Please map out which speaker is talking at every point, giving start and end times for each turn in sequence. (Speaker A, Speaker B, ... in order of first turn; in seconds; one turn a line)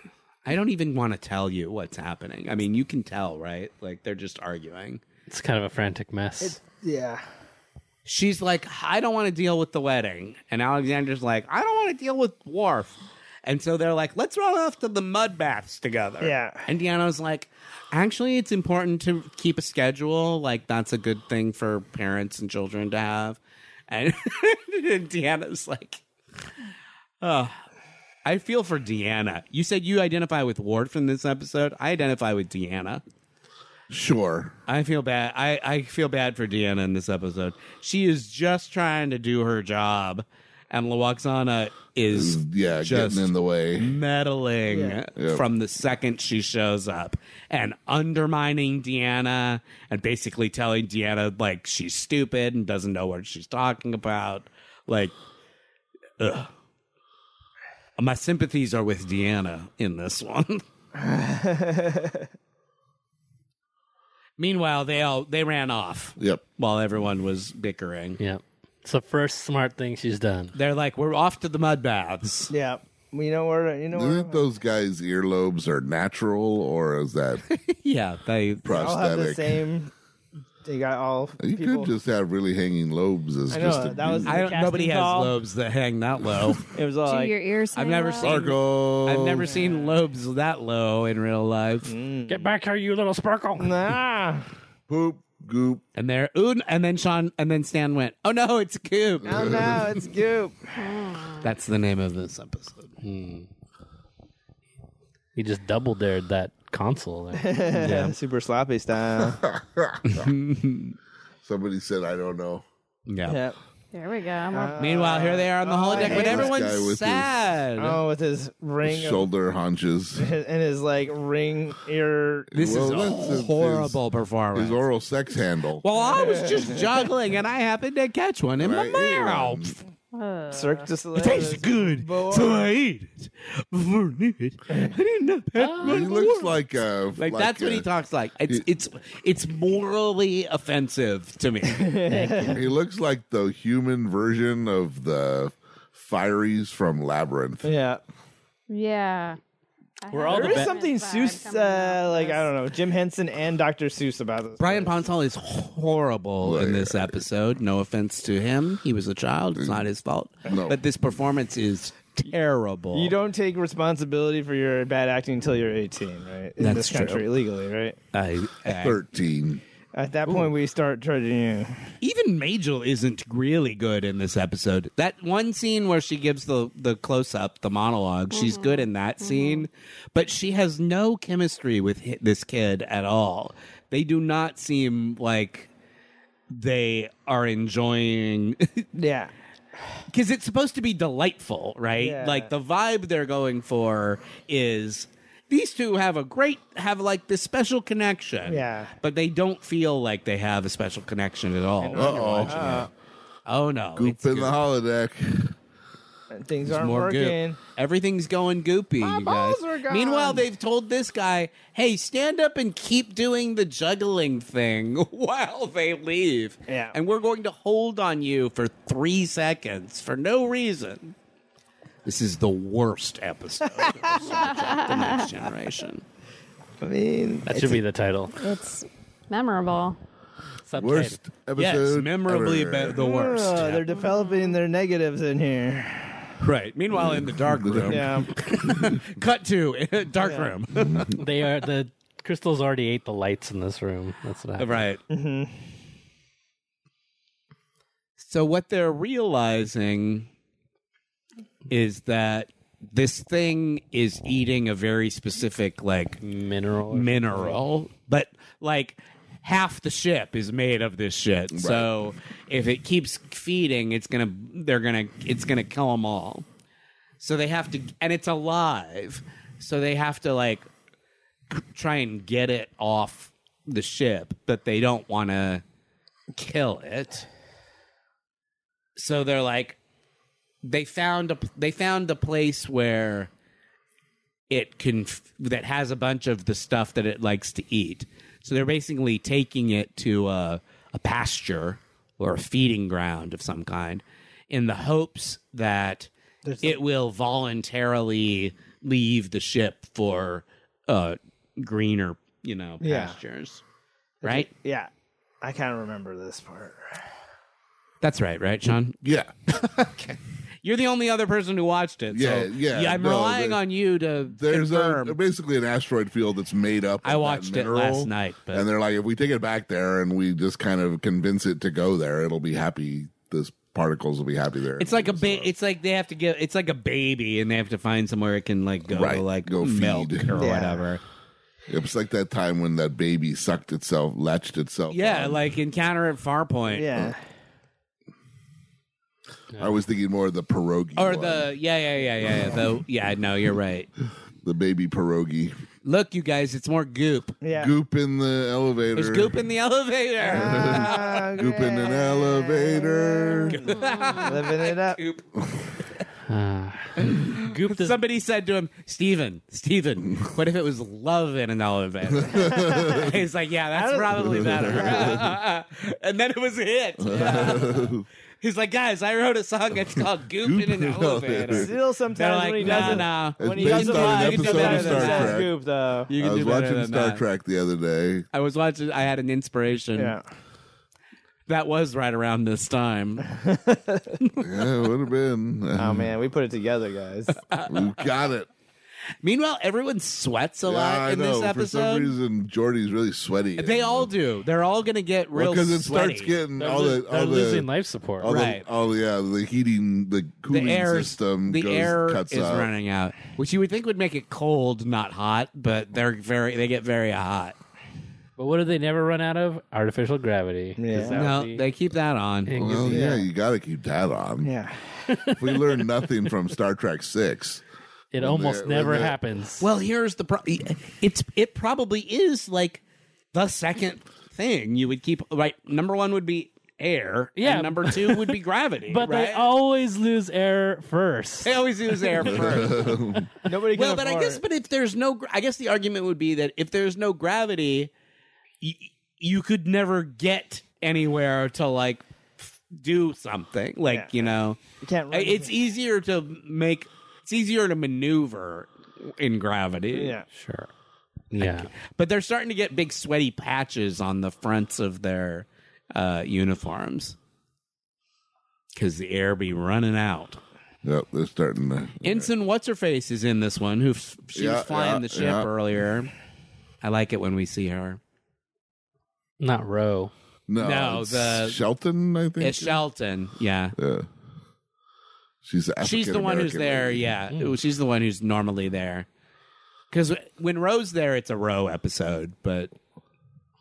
Speaker A: 0.5-5.0
Speaker B: 5.3-6.6
Speaker C: 6.4-7.2
Speaker A: 8.1-26.0
Speaker C: 16.2-16.7
Speaker A: 27.2-27.6
Speaker A: 28.2-33.0
Speaker D: 33.9-34.5
Speaker A: 34.7-55.1
Speaker D: 42.1-43.9
Speaker C: 44.7-45.0
Speaker D: 45.2-45.5
Speaker A: 56.2-56.5
Speaker A: 58.0-60.6
Speaker C: 61.0-62.3
Speaker A: 64.4-68.2
Speaker B: 68.2-70.5
Speaker A: 70.5-72.5
Speaker C: 72.5-74.5
Speaker D: 73.9-77.4
Speaker A: 77.5-78.9
Speaker D: 78.6-79.7
Speaker C: 78.7-79.9
Speaker C: 80.6-81.9
Speaker D: 81.4-84.4
Speaker C: 83.5-85.3
Speaker A: 84.2-86.7
Speaker C: 86.7-87.4
Speaker E: 87.0-88.4
Speaker A: 87.7-91.9
Speaker D: 88.2-89.5
Speaker C: 89.5-90.0
Speaker C: 91.9-92.5
Speaker B: 92.3-93.8
Speaker C: 93.6-94.5
Speaker D: 94.9-95.8
Speaker A: 96.0-99.9
Speaker D: 99.2-99.9
Speaker C: 99.2-100.7
Speaker E: 100.8-101.5
Speaker A: 101.4-102.9
Speaker B: 103.0-103.5
Speaker B: 105.3-108.0
Speaker C: 107.3-109.4
Speaker A: 107.8-108.2
Speaker D: 109.2-110.3
Speaker A: 110.1-111.0
Speaker D: 111.4-112.6
Speaker A: 113.1-113.4
Speaker C: 113.3-113.6
Speaker E: 113.9-115.1
Speaker C: 114.5-116.6
Speaker A: 114.8-118.0
Speaker D: 115.9-117.3
Speaker C: 117.8-119.3
Speaker D: 118.8-120.3
Speaker C: 120.2-122.5
Speaker D: 122.5-124.0
Speaker A: 122.5-124.8
Speaker D: 124.5-125.8
Speaker A: 125.8-129.8
Speaker C: 126.0-127.1
Speaker D: 128.6-129.7
Speaker E: 130.1-130.9
Speaker C: 130.5-132.7
Speaker A: 131.1-136.6
Speaker B: 135.6-136.1
Speaker D: 135.8-137.9
Speaker A: 137.2-142.0
Speaker C: 141.7-142.6
Speaker B: 142.1-142.5
Speaker D: 142.2-147.7
Speaker C: 147.6-148.0
Speaker E: 148.7-149.4
Speaker E: 150.0-152.5
Speaker B: 150.1-150.7
Speaker C: 150.3-155.0
Speaker A: 154.6-163.2
Speaker D: 156.4-157.2
Speaker D: 159.6-159.8
Speaker D: 160.4-160.8
Speaker C: 162.9-168.0
Speaker A: 166.6-167.3
Speaker A: 168.1-169.0
Speaker D: 168.7-169.6
Speaker C: 169.9-171.9
Speaker A: 172.0-185.7
Speaker E: 178.3-179.7
Speaker A: 186.5-188.9
Speaker C: 188.9-189.3
Speaker A: 190.1-202.9
Speaker C: 192.0-192.5
Speaker C: 198.5-198.9
Speaker C: 201.8-202.9
Speaker D: 201.9-202.9
Speaker A: 203.5-204.6
Speaker D: 203.9-205.6
Speaker C: 206.3-207.6
Speaker A: 206.7-221.1
Speaker C: 209.0-210.4
Speaker C: 216.7-216.9
Speaker A: 222.1-226.0
Speaker C: 223.8-224.2
Speaker E: 224.3-225.3
Speaker C: 226.8-227.8
Speaker B: 227.5-228.4
Speaker E: 228.3-230.0
Speaker B: 230.7-231.2
Speaker D: 230.8-233.0
Speaker A: 231.6-233.8
Speaker C: 232.9-236.3
Speaker E: 233.9-234.6
Speaker A: 236.4-241.2
Speaker D: 236.9-239.0
Speaker C: 237.9-238.3
Speaker C: 240.2-240.5
Speaker D: 240.8-241.1
Speaker B: 241.1-244.9
Speaker A: 244.6-245.0
Speaker C: 245.1-245.6
Speaker A: 248.2-250.3
Speaker A: 251.7-256.2
Speaker B: 256.2-257.6
Speaker A: 256.9-266.5
Speaker D: 261.5-261.9
Speaker A: 267.2-270.7
Speaker A: 271.5-275.6
Speaker A: 276.4-277.3
Speaker A: 279.0-279.8
Speaker A: 280.6-283.3
Speaker A: 284.5-296.1
Speaker C: 296.4-296.8
Speaker A: 296.6-303.6
Speaker C: 302.8-303.2
Speaker C: 304.2-304.9
Speaker A: 304.2-304.5
Speaker C: 305.4-307.0
Speaker A: 308.0-315.2
Speaker D: 309.0-309.3
Speaker D: 312.1-313.6
Speaker D: 314.2-325.5
Speaker A: 317.0-318.7
Speaker A: 324.8-331.0
Speaker D: 328.9-330.4
Speaker C: 330.3-330.9
Speaker D: 331.7-335.4
Speaker A: 334.9-337.0
Speaker C: 336.7-337.2
Speaker D: 339.6-341.5
Speaker A: 341.0-343.9
Speaker D: 344.4-345.5
Speaker A: 345.8-347.4
Speaker C: 347.4-347.7
Speaker D: 347.6-349.3
Speaker A: 349.0-351.3
Speaker C: 350.2-355.0
Speaker D: 350.3-353.6
Speaker A: 353.5-355.3
Speaker E: 353.9-354.2
Speaker B: 356.3-358.0
Speaker A: 357.0-375.4
Speaker D: 362.1-363.1
Speaker C: 363.7-365.2
Speaker D: 364.2-365.2
Speaker D: 367.0-368.1
Speaker C: 367.1-367.7
Speaker D: 370.0-371.7
Speaker C: 371.5-376.1
Speaker D: 372.6-375.5
Speaker A: 376.1-377.2
Speaker D: 376.2-378.3
Speaker A: 378.3-380.2
Speaker C: 380.0-380.2
Speaker A: 381.5-383.3
Speaker C: 383.3-384.2
Speaker A: 384.2-384.6
Speaker D: 384.4-386.1
Speaker C: 385.8-387.4
Speaker A: 387.3-388.1
Speaker D: 387.7-388.5
Speaker A: 389.2-392.1
Speaker D: 390.6-394.1
Speaker A: 393.6-396.4
Speaker D: 395.3-397.7
Speaker B: 396.6-398.3
Speaker D: 398.2-402.7
Speaker A: 398.2-398.7
Speaker A: 400.5-407.6
Speaker B: 408.4-411.7
Speaker C: 410.8-411.2
Speaker A: 411.1-412.6
Speaker B: 412.5-413.2
Speaker D: 412.6-414.5
Speaker C: 412.9-413.2
Speaker C: 414.4-415.2
Speaker B: 415.1-415.7
Speaker D: 415.3-417.6
Speaker B: 418.1-419.7
Speaker D: 418.2-419.2
Speaker A: 419.6-422.8
Speaker A: 423.3-429.5
Speaker B: 427.4-433.2
Speaker A: 431.4-433.0
Speaker D: 432.2-433.3
Speaker C: 433.4-434.4
Speaker A: 433.7-437.9
Speaker A: 438.6-444.6
Speaker C: 443.9-444.3
Speaker C: 444.8-445.5
Speaker A: 445.1-450.2
Speaker C: 449.9-450.3
Speaker B: 450.3-450.7
Speaker B: 451.3-451.7
Speaker A: 451.4-457.2
Speaker A: 458.7-460.4
Speaker D: 460.8-462.3
Speaker A: 462.0-466.1
Speaker D: 464.4-465.5
Speaker A: 466.8-468.0
Speaker B: 469.4-470.1
Speaker D: 470.5-472.8
Speaker A: 470.6-471.6
Speaker A: 472.4-473.8
Speaker D: 473.8-474.1
Speaker D: 475.4-477.1
Speaker A: 475.8-479.1
Speaker A: 479.9-482.7